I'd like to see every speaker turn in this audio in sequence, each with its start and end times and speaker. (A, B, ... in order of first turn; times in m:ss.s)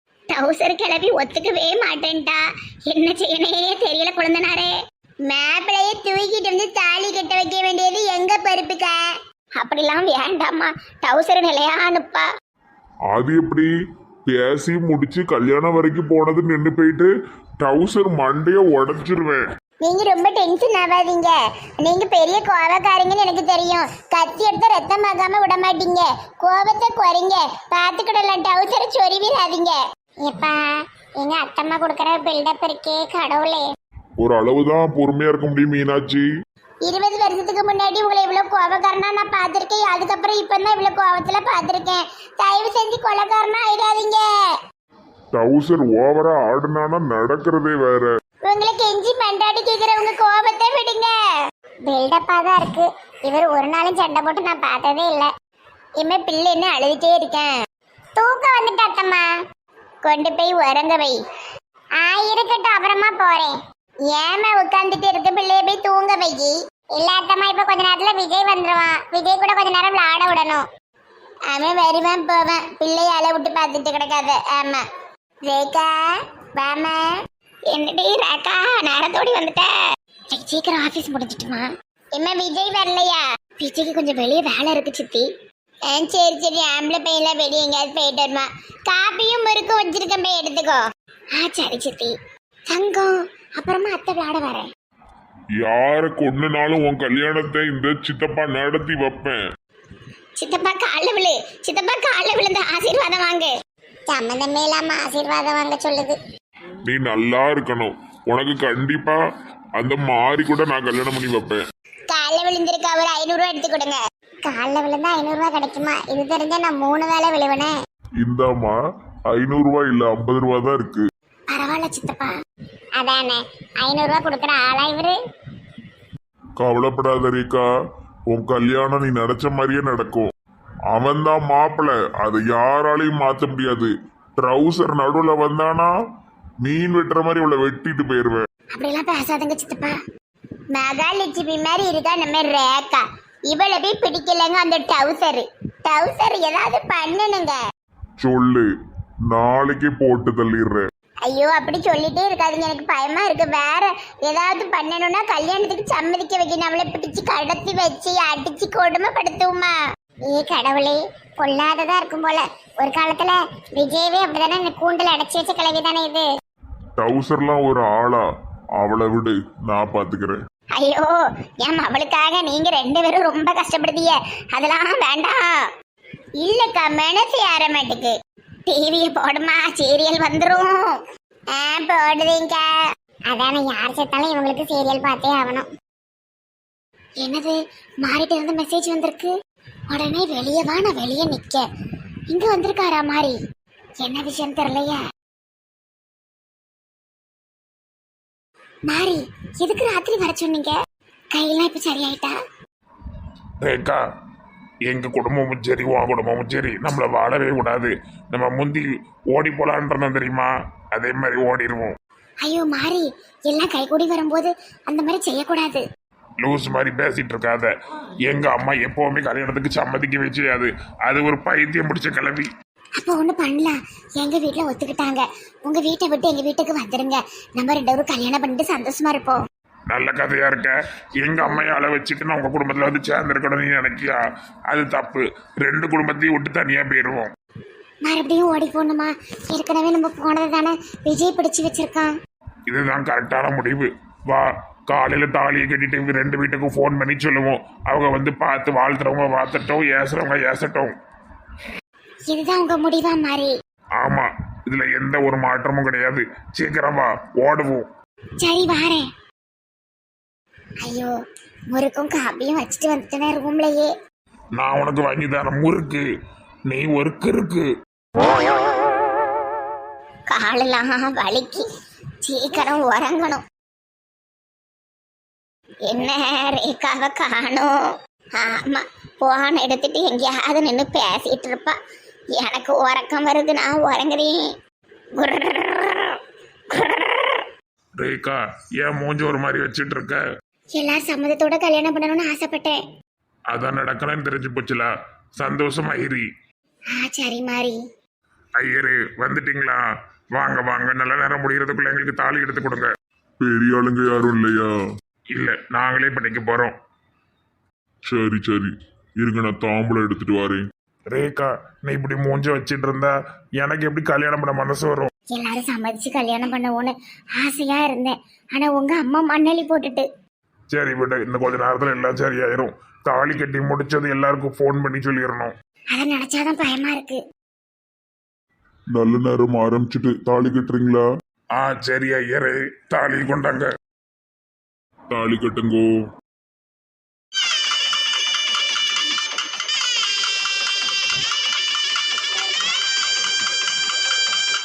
0:00.3-0:04.8 A
0:05.3-0:09.0 A
0:09.6-0:12.3 A
0:13.1-0:13.7 B
0:14.3-0:17.1 B
0:17.6-0:19.4 B
0:19.8-0:30.6 A
0:31.2-0:33.6 A
0:34.2-0:36.3 B
0:36.8-0:44.2 A
0:45.3-0:48.1 B
0:48.4-0:51.1 A
0:51.9-0:55.3 A
0:56.0-0:57.5 A
0:58.2-0:59.3 A
1:00.0-1:01.2 A
1:02.0-1:03.6 A
1:04.1-1:10.7 A
1:11.5-1:14.8 A
1:15.4-1:17.0 A
1:17.7-1:19.7 A
1:20.3-1:25.3 A
1:25.9-1:30.8 A
1:31.4-1:32.1 A
1:32.7-1:34.7 A
1:35.6-1:39.4 B
1:40.4-1:43.5 A
1:44.1-1:46.2 A
1:46.9-1:49.2 B
1:49.8-1:51.6 B
1:52.1-1:57.7 A
1:58.2-1:58.8 B
1:59.3-2:01.0 B
2:01.5-2:02.3 A
2:03.0-2:05.2 A
2:06.6-2:07.7 B
2:08.3-2:10.3 B
2:10.9-2:15.9 B
2:16.6-2:18.4 B
2:18.8-2:20.0 A
2:20.7-2:27.6 A
2:28.2-2:28.7 B
2:29.3-2:30.8 B
2:31.3-2:39.8 A
2:40.3-2:46.3 A
2:47.0-2:48.2 B
2:48.8-2:50.4 B
2:50.8-2:55.5 A
2:56.4-2:58.1 A
2:58.7-3:01.0 A
3:01.5-3:02.7 A
3:03.3-3:05.7 A
3:07.2-3:09.3 A
3:09.9-3:11.7 A
3:12.3-3:13.4 A
3:14.0-3:15.0 A
3:18.9-3:20.8 A
3:21.3-3:22.4 A
3:23.6-3:24.0 C
3:24.9-3:31.9 C
3:32.4-3:35.8 A
3:36.4-3:37.7 C
3:38.3-3:42.5 C
3:43.0-3:49.4 A
3:49.9-3:57.3 C
3:58.0-4:02.1 A
4:02.7-4:10.9 C
4:12.3-4:13.5 A
4:14.0-4:17.9 C
4:18.4-4:19.1 A
4:20.8-4:21.1 A
4:21.7-4:23.9 A
4:24.6-4:26.0 C
4:26.7-4:27.7 C
4:30.3-4:31.6 A
4:32.2-4:33.4 A
4:35.9-4:37.7 A
4:38.4-4:41.8 A
4:42.3-4:44.4 A
4:45.2-4:46.2 A
4:46.7-4:47.5 A
4:48.0-4:50.2 C
4:50.8-4:52.8 A
4:53.5-4:56.3 C
4:57.0-4:57.8 A
4:58.6-4:59.8 C
5:00.3-5:02.9 C
5:03.4-5:04.7 B
5:05.3-5:06.8 C
5:08.0-5:10.6 B
5:11.1-5:15.1 C
5:15.3-5:20.1 A
5:20.7-5:25.5 C
5:25.9-5:27.2 A
5:28.9-5:31.0 B
5:31.6-5:33.7 C
5:35.1-5:35.9 B